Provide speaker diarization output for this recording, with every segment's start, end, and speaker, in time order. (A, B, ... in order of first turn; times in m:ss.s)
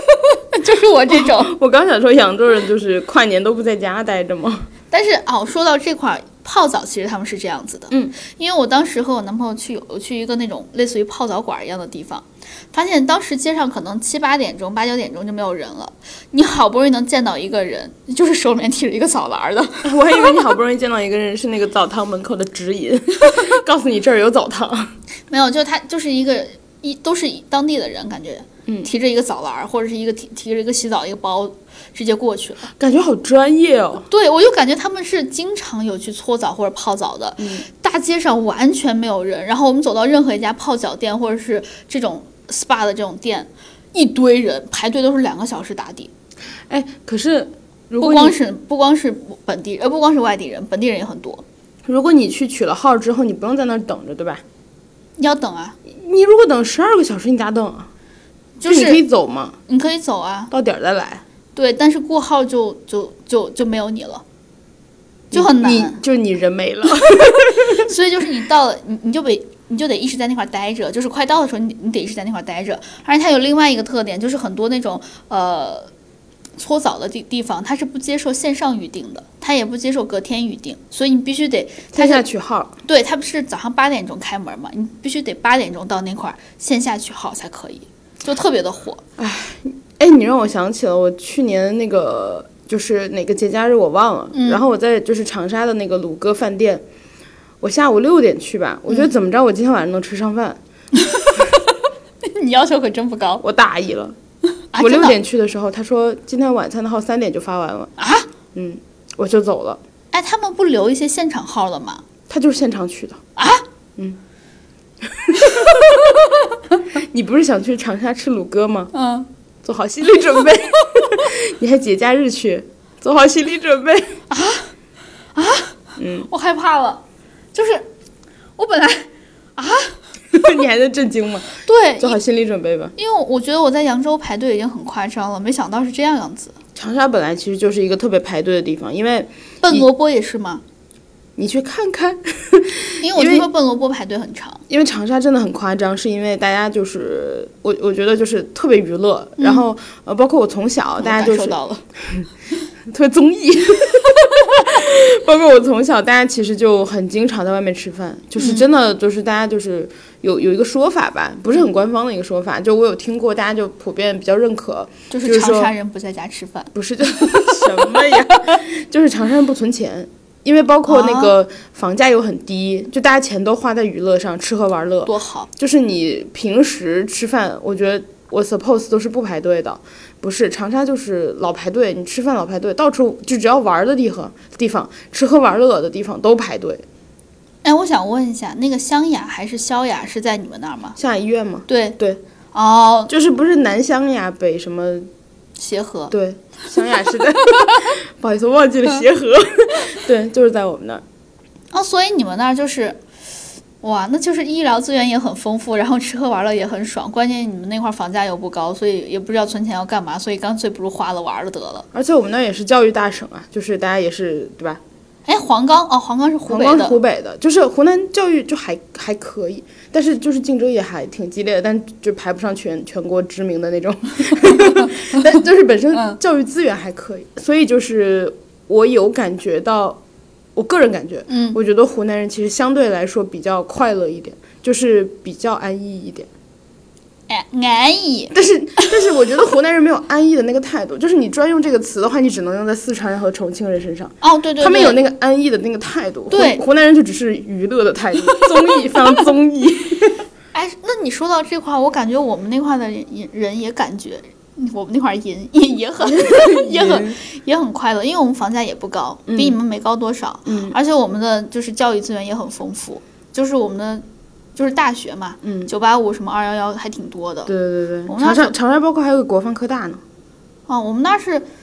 0:00.4-0:01.5 A
0:01.1-0:04.7 B
0:04.9-0:20.0 A
0:19.8-0:24.9 B
0:25.3-0:32.7 A
0:32.8-0:34.1 B
0:34.1-0:46.1 A
0:37.4-0:37.6 B
0:46.7-0:48.4 B
0:48.0-0:51.4 A
0:51.9-0:54.4 B
0:55.2-0:55.8 A
0:55.9-0:57.9 B
0:58.6-0:59.0 A
0:58.6-0:59.6 B
0:59.7-1:00.5 A
1:00.5-1:01.2 B
1:01.6-1:04.2 A
1:05.3-1:07.9 B
1:05.3-1:06.0 A
1:07.2-1:15.9 A
1:16.6-1:22.2 A
1:21.9-1:22.7 B
1:22.9-1:29.0 A
1:29.2-1:36.8 B
1:34.3-1:34.6 A
1:37.6-1:40.6 B
1:41.0-1:41.6 A
1:42.2-1:43.4 A
1:43.4-1:44.2 B
1:44.7-1:45.2 A
1:44.8-1:47.9 B
1:48.0-1:48.3 A
1:48.5-1:49.8 B
1:50.1-1:52.0 A
1:52.3-1:53.2 B
1:53.4-1:53.6 A
1:55.0-1:56.1 B
1:55.4-1:56.4 A
1:57.0-1:58.9 B
1:58.9-1:59.3 A
1:59.6-2:04.2 B
2:04.3-2:04.7 A
2:05.4-2:05.8 A
2:06.0-2:06.3 B
2:06.3-2:07.0 A
2:07.5-2:07.9 A
2:08.6-2:10.0 A
2:10.3-2:12.9 B
2:11.6-2:12.2 A
2:13.0-2:16.6 A
2:16.8-2:19.9 B
2:19.6-2:20.6 A
2:21.4-2:23.5 B
2:23.0-2:24.6 A
2:24.7-2:32.2 B
2:29.4-2:29.6 A
2:31.0-2:31.8 A
2:32.9-2:45.7 B
2:38.4-2:38.7 A
2:45.1-2:46.7 A
2:46.7-3:06.8 B
2:47.3-2:47.6 A
2:50.9-2:51.3 A
2:55.1-2:55.5 A
3:07.6-3:11.0 A
3:11.0-3:12.2 B
3:11.7-3:12.0 A
3:12.5-3:13.1 A
3:13.1-3:15.1 B
3:15.6-3:16.1 A
3:16.1-3:21.0 B
3:21.7-3:23.0 A
3:23.8-3:31.9 A
3:31.9-3:34.8 B
3:35.3-3:37.0 A
3:36.5-3:50.0 B
3:44.6-3:45.2 A
3:50.6-3:56.3 B
3:51.3-3:51.6 A
3:57.3-3:58.9 A
3:58.3-4:10.2 B
4:04.2-4:05.0 A
4:06.3-4:06.6 A
4:08.3-4:08.9 A
4:10.5-4:24.0 A
4:16.1-4:17.2 B
4:19.3-4:19.6 B
4:20.5-4:20.8 B
4:24.6-4:27.5 A
4:25.4-4:25.7 B
4:27.5-4:30.0 B
4:28.1-4:28.6 A
4:30.7-4:31.5 A